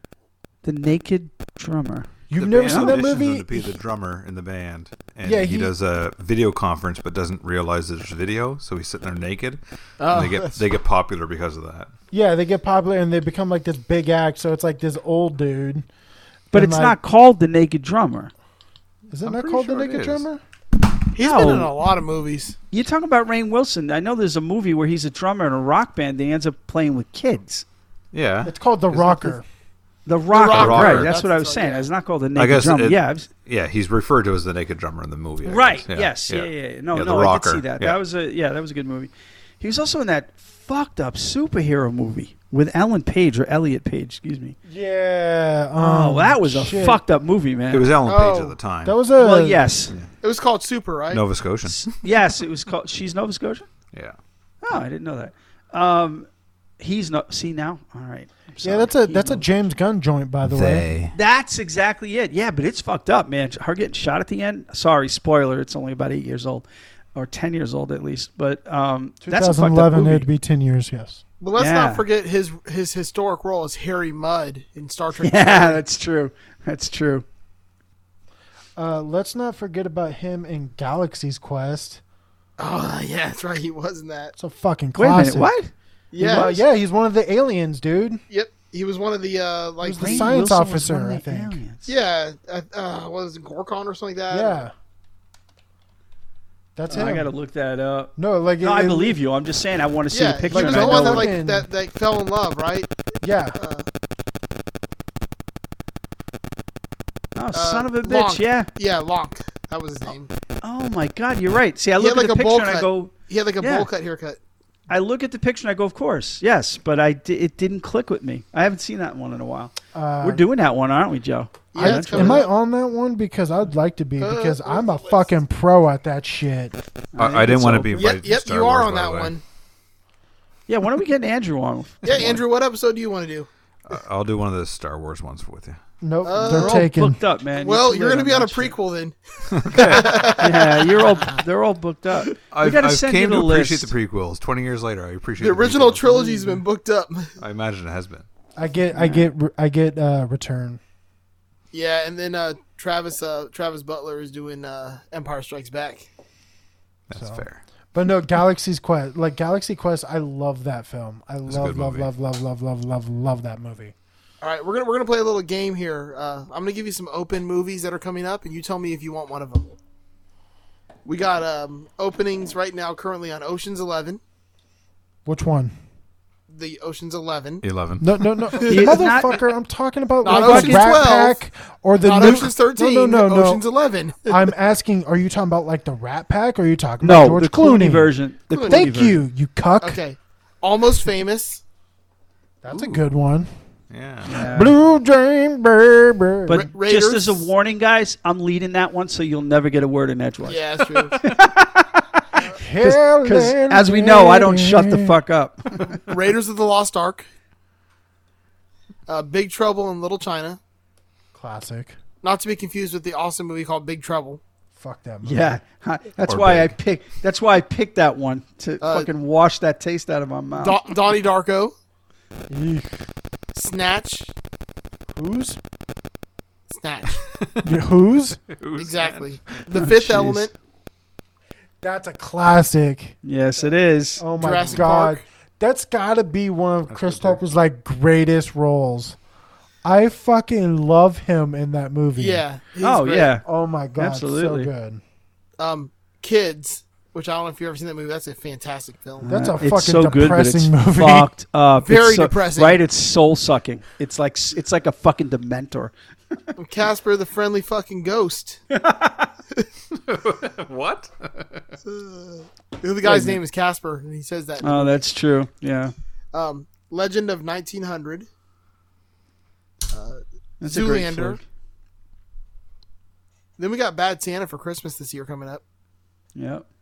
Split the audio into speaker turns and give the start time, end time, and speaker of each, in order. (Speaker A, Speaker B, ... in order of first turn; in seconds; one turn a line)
Speaker A: 0.6-2.1
Speaker B: 2.3-3.7
Speaker C: 2.3-11.9
Speaker A: 2.6-3.0
Speaker B: 5.2-5.7
Speaker D: 10.0-10.6
Speaker B: 12.1-15.9
Speaker B: 16.5-17.0
Speaker A: 16.5-18.3
Speaker B: 19.1-20.4
Speaker C: 19.2-20.2
Speaker D: 21.1-22.6
Speaker A: 21.2-21.7
Speaker A: 22.7-27.6
Speaker C: 28.1-29.3
Speaker B: 28.4-29.4
Speaker A: 30.1-33.3
Speaker D: 30.3-31.9
Speaker C: 30.5-31.1
Speaker C: 32.4-38.0
Speaker A: 35.4-44.5
Speaker B: 44.6-47.0
Speaker A: 45.8-47.9
Speaker C: 47.7-49.0
Speaker D: 48.0-48.6
Speaker B: 48.8-49.6
Speaker A: 49.2-49.9
Speaker D: 50.2-51.2
Speaker C: 51.1-52.0
Speaker A: 51.6-53.7
Speaker A: 54.6-56.3
Speaker A: 56.8-59.4
Speaker B: 58.6-60.9
Speaker C: 60.4-61.1
Speaker A: 61.1-66.6
Speaker A: 67.2-70.3
Speaker B: 69.2-71.2
Speaker D: 71.4-75.8
Speaker A: 71.5-72.0
Speaker A: 75.2-77.2
Speaker B: 78.8-82.0
Speaker D: 82.6-84.3
Speaker B: 84.4-85.5
Speaker A: 85.0-85.7
Speaker D: 86.1-86.6
Speaker B: 86.2-88.2
Speaker D: 88.3-90.3
Speaker B: 89.8-91.6
Speaker A: 90.0-91.9
Speaker D: 91.8-94.6
Speaker B: 94.3-94.7
Speaker B: 96.8-97.3
Speaker A: 96.9-101.3
Speaker B: 98.2-99.2
Speaker D: 100.1-102.9
Speaker B: 100.5-101.7
Speaker B: 103.2-103.6
Speaker D: 103.5-103.8
Speaker A: 107.3-108.7
Speaker D: 107.5-110.3
Speaker A: 110.6-113.9
Speaker D: 112.0-114.4
Speaker A: 114.9-122.5
Speaker B: 119.9-120.4
Speaker D: 121.7-122.5
Speaker B: 121.8-126.8
Speaker D: 124.2-125.3
Speaker A: 127.1-128.1
Speaker C: 127.2-129.3
Speaker D: 127.9-129.4
Speaker A: 130.7-132.4
Speaker D: 132.0-133.5
Speaker C: 133.9-135.8
Speaker B: 136.0-137.2
Speaker D: 136.2-136.8
Speaker A: 136.4-138.8
Speaker D: 137.5-141.3
Speaker C: 139.6-140.1
Speaker A: 139.7-143.9
Speaker C: 142.5-146.1
Speaker D: 145.4-147.3
Speaker A: 146.2-146.5
Speaker C: 147.4-148.2
Speaker B: 148.6-150.8
Speaker A: 148.9-149.3
Speaker D: 151.7-156.1
Speaker C: 157.1-157.6
Speaker B: 157.1-163.9
Speaker C: 161.5-162.1
Speaker D: 164.4-169.7
Speaker D: 171.0-174.2
Speaker B: 175.2-175.7
Speaker D: 176.5-177.6
Speaker C: 177.6-178.3
Speaker B: 178.0-183.6
Speaker D: 178.5-179.1
Speaker A: 178.7-179.4
Speaker A: 180.2-181.0
Speaker D: 180.2-181.4
Speaker D: 182.0-184.3
Speaker B: 184.2-190.0
Speaker A: 187.0-189.2
Speaker D: 188.5-188.9
Speaker D: 189.8-191.6
Speaker B: 192.6-193.5
Speaker C: 192.7-193.0
Speaker C: 193.9-194.3
Speaker A: 194.3-194.8
Speaker B: 194.3-196.6
Speaker A: 196.5-200.6
Speaker D: 196.5-197.5
Speaker D: 200.4-201.2
Speaker A: 201.2-202.2
Speaker B: 202.5-205.2
Speaker A: 202.8-206.0
Speaker D: 206.1-207.3
Speaker D: 209.1-210.6
Speaker B: 211.3-212.0
Speaker D: 212.2-214.4
Speaker B: 214.8-215.6
Speaker A: 215.2-220.8
Speaker C: 216.3-216.7
Speaker D: 218.8-219.1
Speaker D: 220.5-221.7
Speaker B: 222.5-223.1
Speaker D: 223.5-224.3
Speaker B: 225.1-225.6
Speaker D: 226.7-227.2
Speaker C: 227.4-227.7
Speaker B: 227.6-228.4
Speaker C: 228.5-229.4
Speaker D: 228.8-230.5
Speaker A: 229.8-230.4
Speaker B: 231.8-233.2
Speaker A: 233.2-234.2
Speaker B: 234.2-239.2
Speaker D: 234.4-235.2
Speaker C: 236.9-237.4
Speaker B: 239.8-242.4
Speaker D: 242.2-243.4
Speaker A: 242.8-243.4
Speaker B: 243.4-245.0
Speaker A: 244.0-244.7
Speaker D: 245.6-249.4
Speaker A: 249.2-255.9
Speaker B: 249.3-251.3
Speaker D: 251.8-252.8
Speaker D: 256.6-258.6
Speaker A: 258.7-259.3
Speaker C: 259.9-261.8
Speaker D: 261.8-265.0
Speaker A: 263.0-263.4
Speaker A: 264.6-265.9
Speaker D: 266.3-268.3
Speaker D: 269.9-271.4
Speaker A: 270.6-271.4
Speaker D: 273.6-275.6
Speaker A: 276.4-276.6